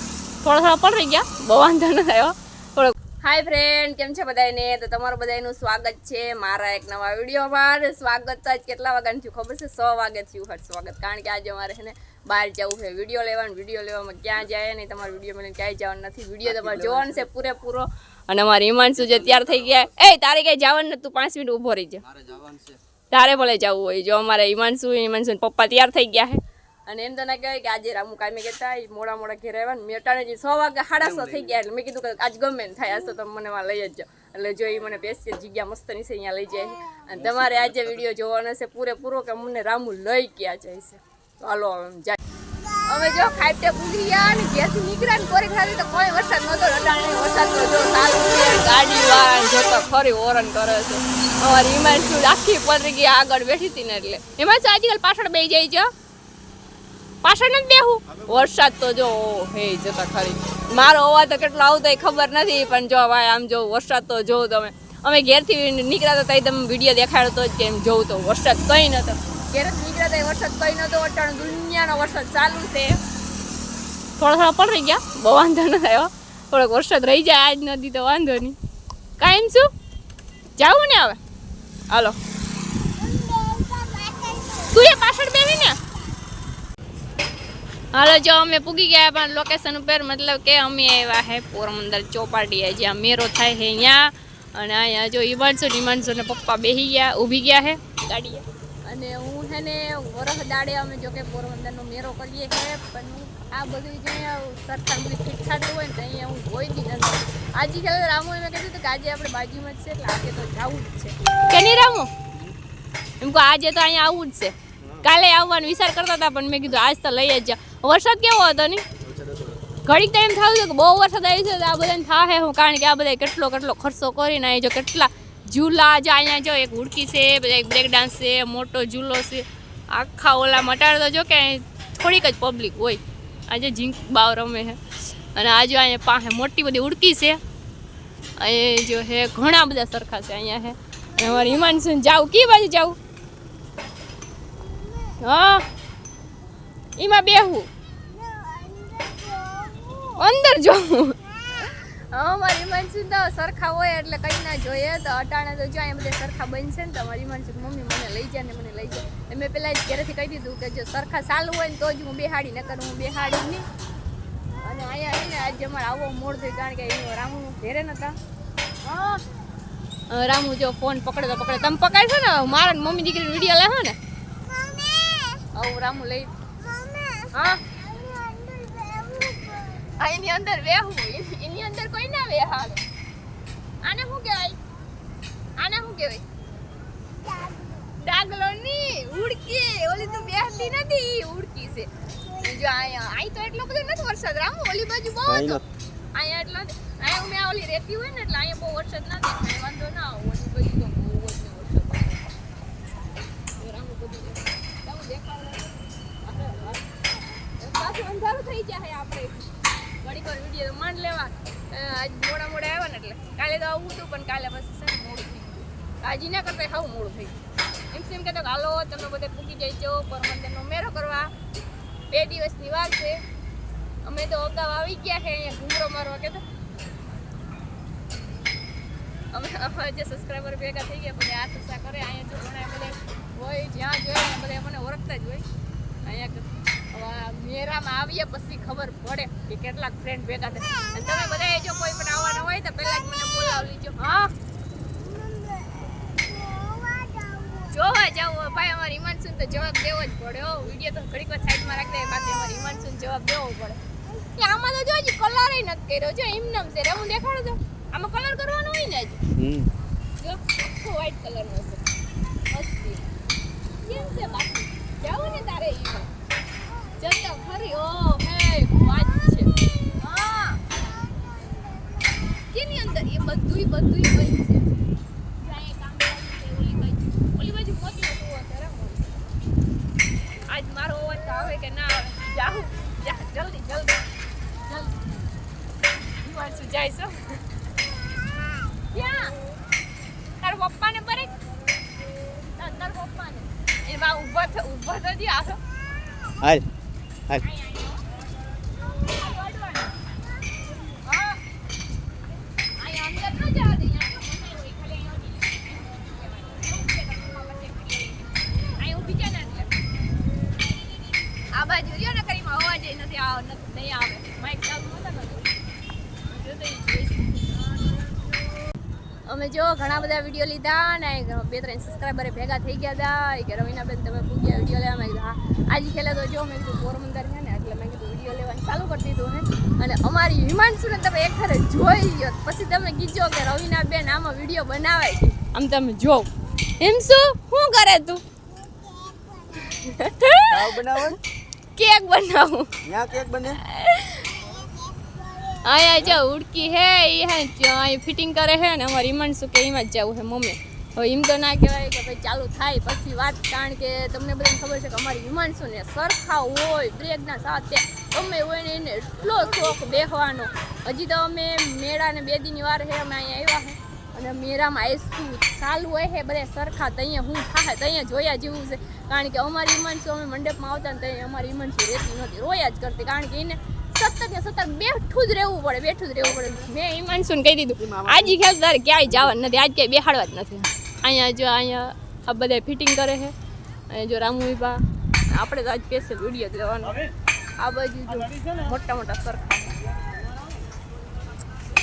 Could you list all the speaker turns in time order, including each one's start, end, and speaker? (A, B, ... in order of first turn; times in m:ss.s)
0:00.4-0:22.0 A
0:16.5-0:17.2 B
0:22.0-0:22.8 B
0:23.1-0:42.2 A
0:31.0-0:31.6 B
0:37.2-0:38.0 B
0:42.9-0:55.9 A
0:57.2-1:13.0 A
0:58.1-0:58.5 B
1:14.2-1:18.6 A
1:19.2-1:19.7 A
1:20.6-1:21.2 A
1:21.9-1:22.2 A
1:23.2-1:25.8 A
1:27.9-1:52.1 A
1:53.2-1:58.8 A
1:54.8-1:55.1 B
1:59.0-1:59.6 B
1:59.9-2:17.4 A
2:18.4-2:23.0 A
2:25.2-2:25.7 A
2:27.0-2:27.7 A
2:30.0-2:43.7 A
2:44.6-2:48.2 A
2:48.8-2:49.2 A
2:50.1-2:54.0 A
2:55.6-2:56.3 A
2:57.3-2:57.7 A
2:58.3-3:02.8 A
3:03.8-3:04.6 A
3:05.6-3:06.2 A
3:08.0-3:15.6 A
3:15.3-3:15.7 B
3:16.2-3:22.4 A
3:23.6-3:25.7 A
3:26.2-3:26.9 A
3:27.6-3:29.5 A
3:30.0-3:37.4 A
3:37.9-3:41.3 A
3:42.1-3:43.2 A
3:44.0-3:46.4 A
3:49.3-3:55.4 A
3:56.0-4:04.3 A
4:07.4-4:19.2 A
4:19.4-4:19.7 B
4:20.2-4:21.8 A
4:22.5-4:23.1 A
4:23.8-4:26.1 A
4:27.0-4:30.6 A
4:32.5-4:34.7 A
4:35.4-4:39.2 A
4:40.5-4:44.1 A
4:44.7-4:44.9 A
4:46.2-4:47.4 A
4:48.9-4:49.4 A
4:50.4-4:51.3 A
4:52.6-4:55.6 A
4:57.4-4:58.0 A
4:59.0-5:00.0 A
5:01.0-5:01.4 A
5:02.8-5:09.7 A
5:11.5-5:15.6 A
5:16.3-5:17.6 A
5:19.3-5:38.2 A
5:39.5-5:41.1 A
5:40.5-5:41.2 B
5:41.8-5:42.7 A
5:42.8-5:43.6 B
5:43.5-5:44.3 A
5:45.5-6:23.4 A
6:17.8-6:18.4 B
6:23.9-6:27.0 A
6:27.6-6:29.8 A